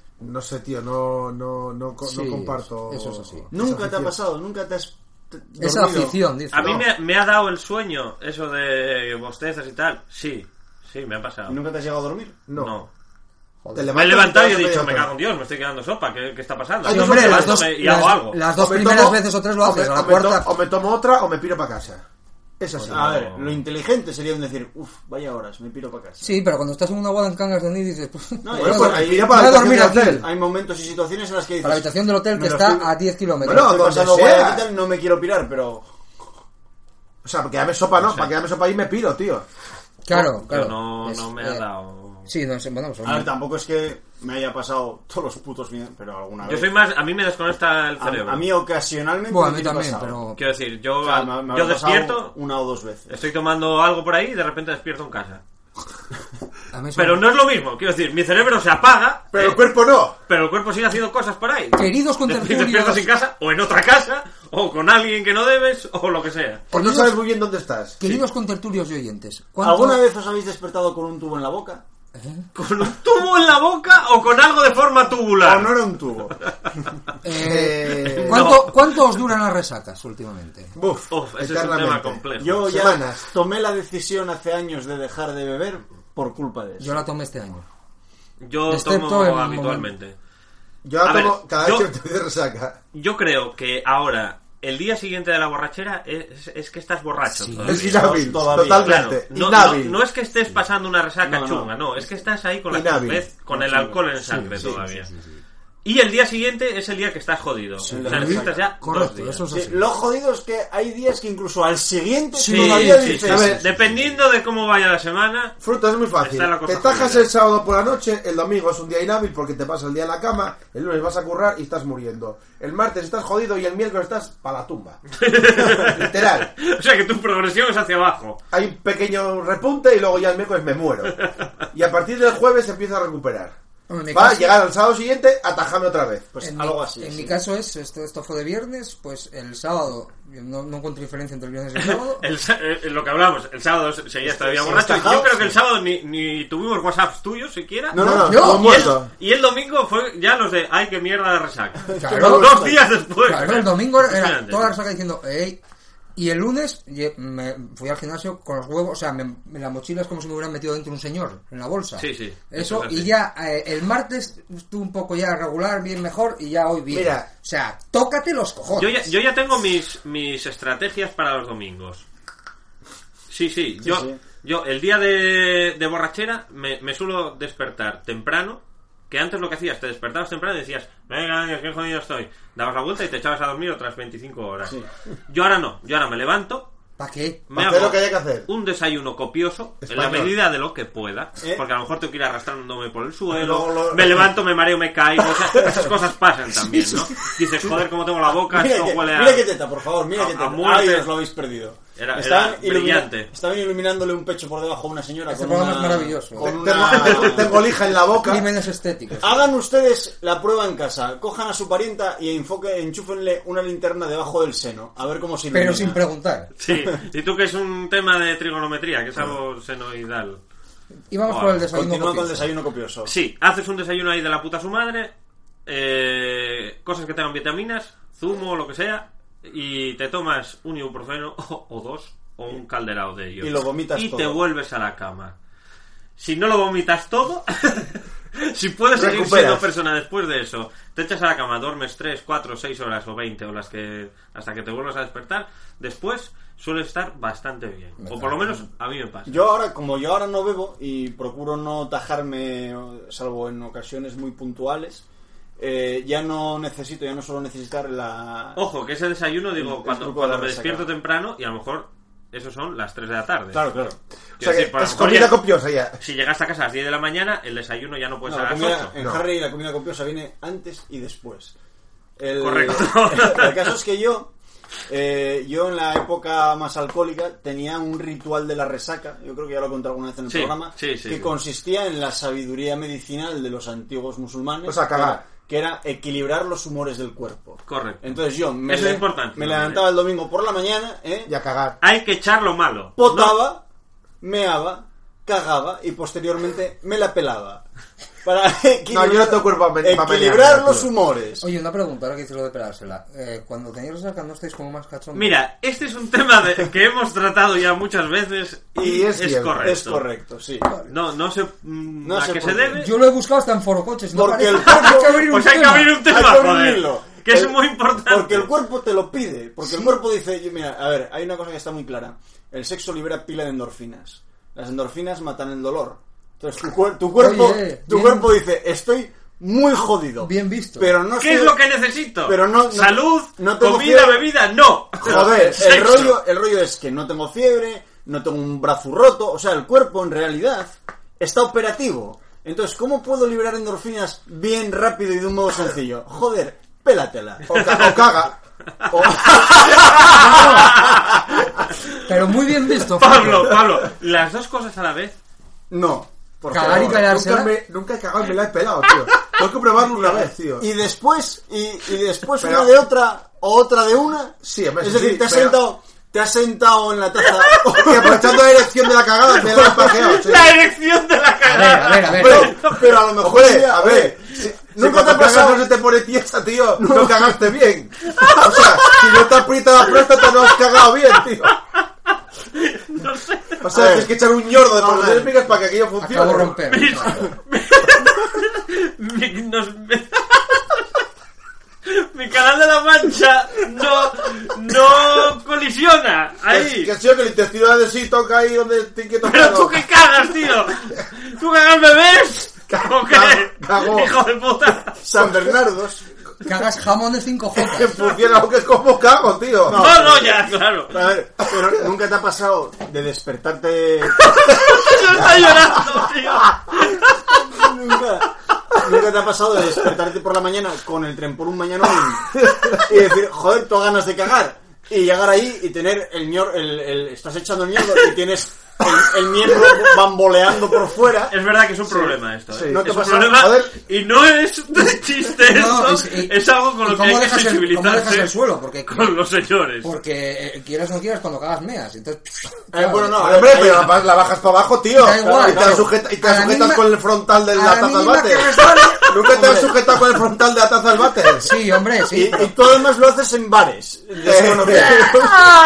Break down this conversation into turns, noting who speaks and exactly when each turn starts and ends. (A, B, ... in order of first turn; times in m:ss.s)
0:00.2-0:04.2 A
0:02.0-0:03.5 B
0:03.5-0:06.8 C
0:05.6-0:06.8 B
0:06.5-0:11.6 D
0:11.5-0:12.4 C
0:12.5-0:12.8 A
0:12.6-0:12.9 D
0:13.6-0:13.9 B
0:13.7-0:15.1 A
0:13.9-0:18.4 D
0:16.8-0:17.6 A
0:16.9-0:20.5 B
0:18.5-0:22.0 A
0:22.6-0:23.1 A
0:22.8-0:26.3 C
0:22.8-0:23.6 D
0:26.2-0:30.2 B
0:28.4-0:35.9 C
0:28.6-0:30.3 A
0:31.6-0:33.7 B
0:33.4-0:34.7 A
0:37.2-0:39.4 A
0:40.0-0:41.6 B
0:40.1-0:42.3 D
0:42.3-0:43.3 B
0:43.0-0:46.7 C
0:46.4-0:48.5 D
0:48.0-0:50.2 C
0:49.3-0:50.4 B
0:50.4-0:52.4 D
0:51.0-0:53.1 C
0:53.1-0:55.4 D
0:56.7-0:57.2 B
0:57.0-0:59.7 D
0:59.3-1:00.2 A
1:00.3-1:06.6 D
1:01.8-1:03.1 B
1:06.7-1:07.2 B
1:06.7-1:08.0 A
1:08.0-1:10.0 B
1:09.6-1:11.8 C
1:12.1-1:12.4 B
1:12.6-1:15.9 D
1:15.4-1:16.4 C
1:17.2-1:20.7 B
1:17.3-1:18.6 A
1:17.9-1:19.0 D
1:20.7-1:23.3 A
1:21.1-1:22.8 D
1:22.4-1:27.0 C
1:26.8-1:27.6 B
1:28.4-1:30.1 D
1:28.7-1:29.9 B
1:30.8-1:32.8 A
1:31.0-1:31.9 D
1:32.9-1:45.1 D
1:37.3-1:37.8 B
1:37.6-1:40.0 A
1:37.8-1:39.1 C
1:41.2-1:41.7 C
1:42.7-1:43.3 A
1:43.5-1:44.0 C
1:44.2-1:45.4 B
1:44.6-1:44.8 C
1:45.8-1:49.4 D
1:47.8-1:49.8 B
1:47.9-1:48.6 C
1:49.5-1:53.6 C
1:52.4-1:53.2 B
1:52.5-1:55.6 D
1:53.0-1:54.1 A
1:55.6-2:05.0 A
1:56.2-1:57.3 D
2:05.2-2:08.4 D
2:05.6-2:06.5 A
2:08.5-2:13.6 A
2:13.9-2:14.6 B
2:14.1-2:16.3 A
2:16.3-2:17.4 C
2:16.4-2:22.2 B
2:21.8-2:34.7 D
2:24.2-2:25.3 C
2:24.7-2:25.3 A
2:27.9-2:28.8 C
2:27.9-2:29.1 A
2:28.2-2:28.9 B
2:31.8-2:32.8 C
2:32.0-2:32.5 B
2:33.2-2:35.6 B
2:36.2-2:49.0 B
2:42.0-2:43.1 D
2:46.9-2:47.3 A
2:48.8-2:52.0 D
2:53.3-3:04.8 D
2:53.8-2:54.2 C
3:05.3-3:06.7 D
3:07.0-3:07.4 B
3:07.5-3:19.5 D
3:07.5-3:08.5 A
3:09.8-3:10.3 A
3:13.3-3:14.3 C
3:18.5-3:28.0 C
3:20.1-3:21.1 D
3:22.0-3:23.3 D
3:25.3-3:26.5 B
3:26.4-3:28.4 A
3:26.9-3:27.4 D
3:28.2-3:29.5 B
3:29.2-3:36.0 C
3:35.5-3:36.5 B
3:36.6-3:40.4 D
3:41.1-3:42.5 B
3:41.3-3:41.7 D
3:41.7-3:43.1 C
3:43.0-3:45.1 D
3:45.7-3:55.4 D
3:53.4-3:54.4 C
3:56.2-4:09.4 D
3:58.9-3:59.7 A
4:08.0-4:08.6 B
4:09.3-4:15.0 C
4:15.6-4:18.6 C
4:18.6-4:23.6 D
4:19.6-4:20.9 C
4:23.5-4:24.0 C
4:24.4-4:25.4 D
4:24.4-4:26.0 A
4:26.0-4:28.9 D
4:28.3-4:31.5 C
4:29.0-4:29.2 A
4:32.2-4:34.3 C
4:32.4-4:33.7 D
4:34.9-4:51.3 C
4:40.3-4:41.3 D
4:44.6-4:45.3 A
4:47.7-4:49.9 D
4:51.3-4:51.8 A
4:51.8-4:53.4 D
4:53.0-4:53.6 C
4:54.2-4:57.6 C
4:58.2-5:01.4 C
4:58.9-5:00.9 A
5:01.4-5:05.4 B
5:05.1-5:10.0 D
5:08.8-5:09.8 A
5:09.6-5:10.7 C
5:10.9-5:12.9 D
5:12.0-5:12.8 C
5:12.8-5:16.0 B
5:14.1-5:15.2 C
5:14.7-5:18.5 D
5:16.0-5:17.6 C
5:18.1-5:31.6 C
5:19.6-5:20.0 B
5:27.2-5:28.3 B
5:30.2-5:30.9 B
5:31.2-5:36.2 D
5:32.2-5:34.3 C
5:35.0-5:47.4 C
5:47.5-5:48.4 A
5:47.6-5:48.0 D
5:48.9-5:50.4 C
5:49.0-5:51.1 D
5:50.1-5:50.7 B
5:52.1-5:53.5 B
5:53.0-5:55.2 D
5:55.7-5:57.0 C
5:56.5-5:57.5 B
5:56.6-6:00.7 A
6:00.0-6:08.4 C
6:02.4-6:02.7 A
6:04.4-6:05.6 A
6:07.8-6:10.6 A
6:09.3-6:13.0 D
6:11.4-6:12.5 B
6:12.1-6:15.7 C
6:12.1-6:21.6 A
6:16.8-6:17.4 C
6:18.1-6:19.3 D
6:19.9-6:21.6 D
6:22.5-6:23.6 D
6:23.6-6:26.6 A
6:23.7-6:25.6 C
6:26.0-6:27.3 B
6:26.6-6:31.0 D
6:31.9-6:36.9 D
6:36.5-6:39.8 A
6:39.2-6:45.0 D
6:42.7-6:44.1 A
6:45.0-6:46.0 C
6:45.2-6:45.6 A
6:46.4-6:48.0 B
6:47.6-6:50.1 A
6:49.7-6:54.3 C
6:49.7-6:51.1 D
6:54.5-6:57.0 D
6:57.3-7:11.4 C
7:02.3-7:02.8 A
7:11.3-7:18.3 D
7:12.5-7:13.8 A
7:12.7-7:13.4 C
7:15.4-7:19.1 B
7:18.9-7:19.9 D
7:19.8-7:23.2 B
7:22.7-7:24.0 C
7:23.2-7:31.6 A
7:25.0-7:26.9 B
7:25.2-7:25.9 C
7:27.5-7:29.1 B
7:29.1-7:29.9 C
7:31.4-7:32.5 B
7:32.0-7:35.5 C
7:34.2-7:35.3 A